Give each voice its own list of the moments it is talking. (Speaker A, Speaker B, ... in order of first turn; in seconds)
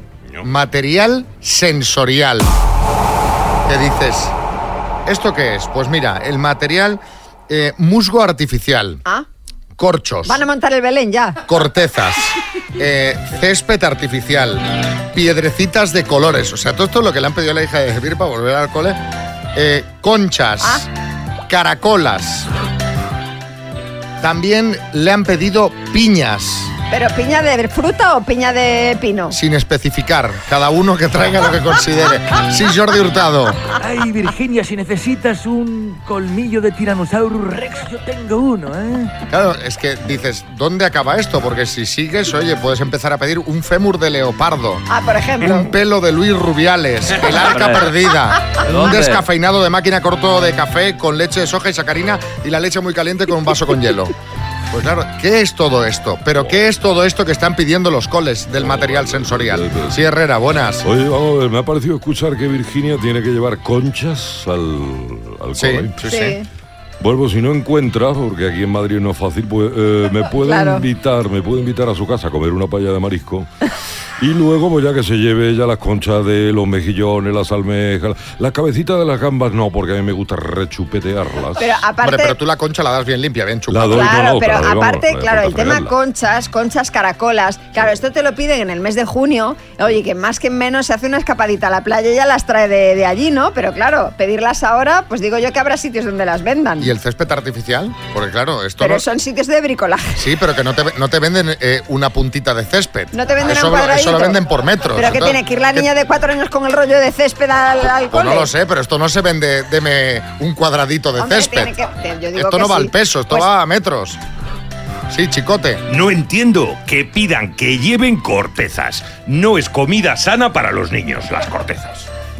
Speaker A: 0.4-2.5, 3.7-4.3, 5.1-9.0, 9.8-10.4, 11.5-19.0, 19.6-20.9, 21.5-22.5, 24.2-26.7, 29.3-33.6, 39.3-44.8, 45.5-54.1, 54.7-60.9, 65.6-66.4, 82.0-84.1, 96.8-99.0, 100.2-105.9, 108.1-111.7, 112.4-114.2, 115.1-115.8
Speaker B: 10.3-11.4, 26.9-29.3, 44.9-45.7, 66.0-66.5, 70.4-70.8, 81.6-82.4, 83.9-96.9, 98.8-100.2, 103.1-104.4, 105.0-108.5, 111.2-113.5
Speaker C: 33.8-39.1, 47.3-47.9, 48.6-49.3
Speaker D: 47.2-47.5, 116.1-122.1
Speaker E: 58.5-60.0, 60.8-66.0, 67.0-73.5, 74.2-81.8, 83.7-85.9